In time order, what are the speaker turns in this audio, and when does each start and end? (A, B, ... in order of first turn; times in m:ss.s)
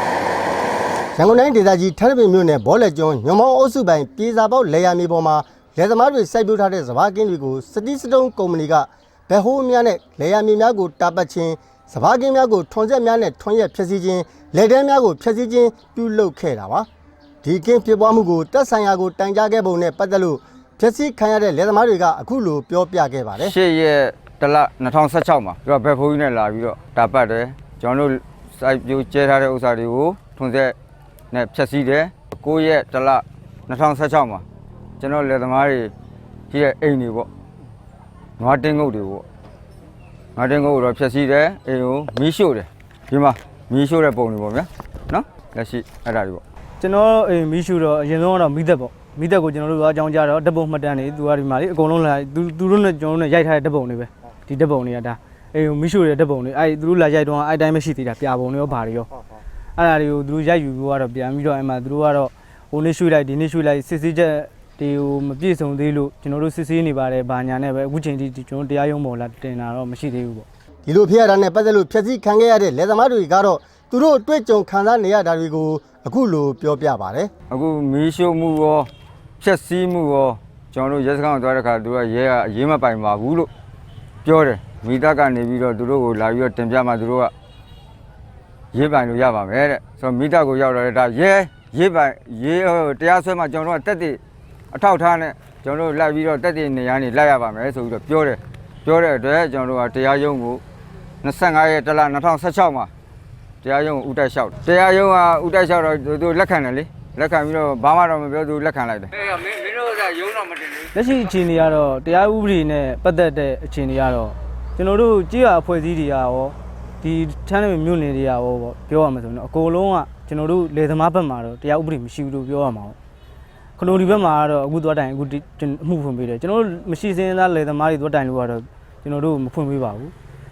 0:01.2-0:16.9 A
0:17.4-0:23.6 A
0:23.4-0:30.8 B
0:31.3-0:34.4 B
0:35.0-0:35.9 B
0:36.5-0:37.3 B
0:38.4-0:39.2 B
0:40.4-0:46.4 B
0:46.8-0:59.1 C
0:59.8-1:10.5 C
1:10.9-1:17.3 A
1:17.5-1:18.9 B
1:19.4-1:23.5 B
1:24.2-1:27.3 B
1:28.7-1:34.2 B
1:34.7-1:40.6 B
1:41.2-1:42.9 B
1:43.6-1:50.7 B
1:50.9-2:03.0 C
2:03.8-2:10.1 C